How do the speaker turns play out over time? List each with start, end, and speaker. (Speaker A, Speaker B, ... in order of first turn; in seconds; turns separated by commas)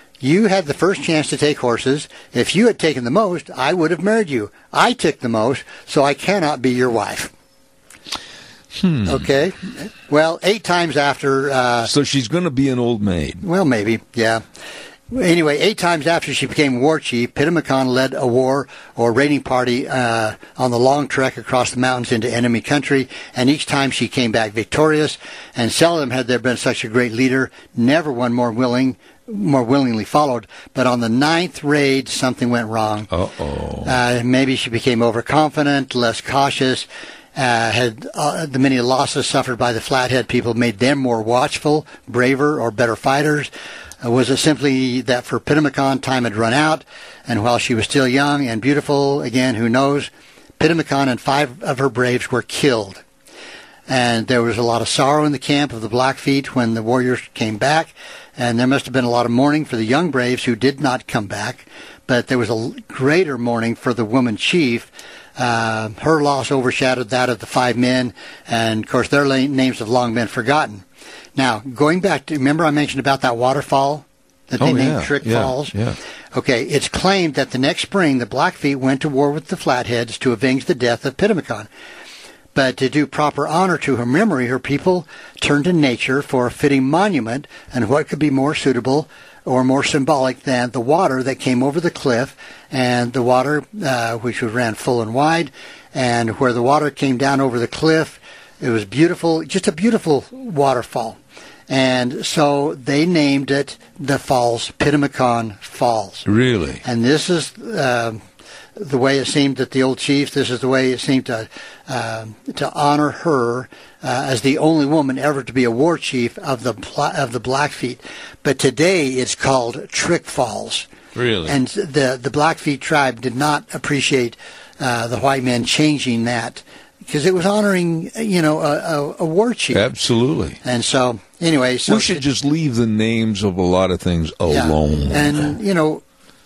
Speaker A: 0.2-7.3, Speaker B: 8.7-9.2, Speaker A: 9.1-11.9, Speaker B: 11.8-13.4, Speaker A: 13.4-14.4, Speaker A: 15.1-33.1, Speaker B: 33.1-33.9, Speaker A: 33.8-43.5, Speaker A: 44.0-53.0, Speaker A: 53.9-70.8, Speaker A: 71.4-75.7, Speaker B: 74.6-76.0, Speaker A: 76.3-81.7, Speaker A: 82.5-101.2, Speaker A: 101.7-106.3, Speaker B: 106.3-106.8, Speaker A: 106.8-108.2, Speaker A: 108.8-120.9, Speaker B: 121.2-121.6, Speaker A: 121.5-129.8, Speaker B: 129.7-130.6, Speaker A: 130.6-132.2, Speaker B: 131.9-135.5, Speaker A: 134.5-136.0